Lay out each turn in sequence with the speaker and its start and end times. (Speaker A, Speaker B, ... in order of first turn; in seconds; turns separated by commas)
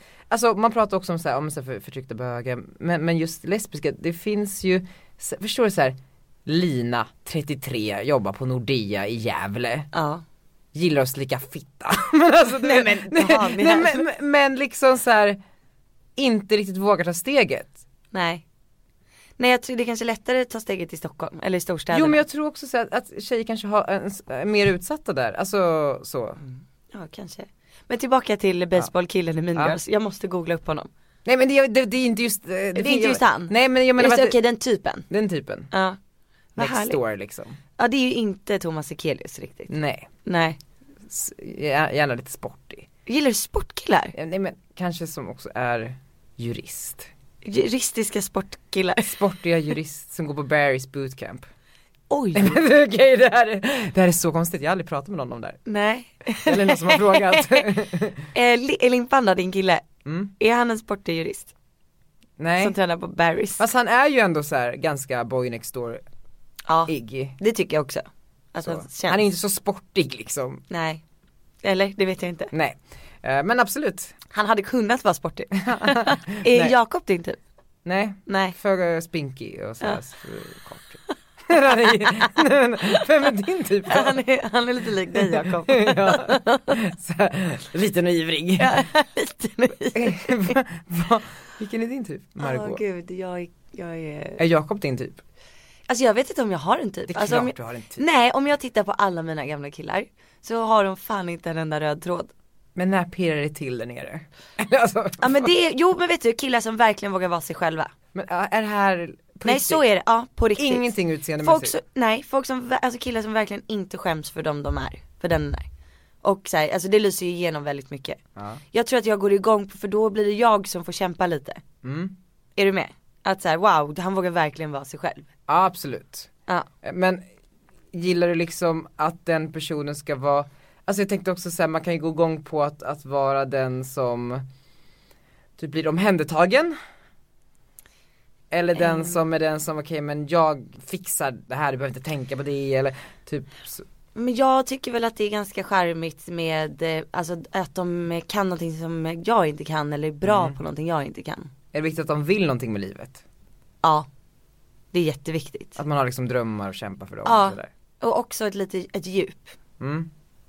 Speaker A: 0.3-9.9, Speaker B: 9.9-10.2, Speaker A: 10.7-15.4, Speaker B: 12.6-14.0, Speaker A: 16.1-17.7, Speaker B: 18.1-18.4, Speaker B: 19.4-22.2, Speaker A: 21.9-26.4, Speaker B: 26.4-30.9, Speaker A: 31.2-34.4, Speaker B: 32.7-35.1, Speaker A: 35.1-35.7, Speaker B: 35.7-36.0, Speaker B: 36.5-37.0, Speaker A: 36.6-37.6, Speaker B: 37.8-39.7, Speaker A: 39.7-40.1, Speaker B: 40.2-40.6, Speaker A: 41.1-42.9, Speaker B: 43.1-44.1, Speaker A: 44.1-47.1, Speaker B: 47.4-49.1, Speaker A: 49.0-51.5, Speaker B: 52.1-52.6, Speaker A: 52.3-55.6, Speaker B: 55.6-57.7, Speaker A: 56.4-58.3, Speaker B: 58.3-59.9, Speaker A: 60.0-60.3, Speaker B: 60.4-61.5, Speaker A: 62.4-62.7, Speaker B: 62.6-63.6, Speaker A: 63.6-66.0, Speaker B: 66.7-69.2, Speaker A: 66.9-67.3, Speaker A: 68.6-70.6, Speaker B: 70.7-71.0, Speaker B: 71.6-72.5, Speaker A: 72.5-74.1, Speaker B: 74.3-77.4, Speaker A: 75.6-76.7, Speaker A: 77.8-84.2, Speaker B: 78.3-78.5, Speaker B: 81.8-82.3, Speaker B: 83.9-86.8, Speaker A: 85.1-88.8, Speaker B: 88.6-90.6, Speaker A: 89.9-92.8, Speaker B: 92.4-94.4, Speaker A: 94.4-95.2, Speaker B: 95.9-102.3, Speaker A: 97.1-98.0, Speaker A: 102.7-105.5, Speaker B: 105.2-107.9, Speaker A: 108.1-109.8, Speaker B: 109.4-115.7, Speaker A: 110.5-111.7, Speaker B: 116.2-118.2, Speaker A: 118.3-118.6, Speaker B: 118.7-121.6, Speaker A: 121.8-122.1, Speaker B: 122.6-125.3, Speaker A: 125.5-126.3, Speaker A: 126.8-127.2, Speaker A: 127.9-134.4, Speaker A: 135.6-136.8, Speaker A: 138.5-143.8, Speaker B: 138.8-139.2, Speaker B: 144.1-151.5, Speaker A: 150.2-150.6, Speaker A: 151.7-153.2, Speaker B: 154.9-155.8, Speaker A: 155.8-157.7, Speaker B: 157.2-159.5, Speaker A: 159.8-160.1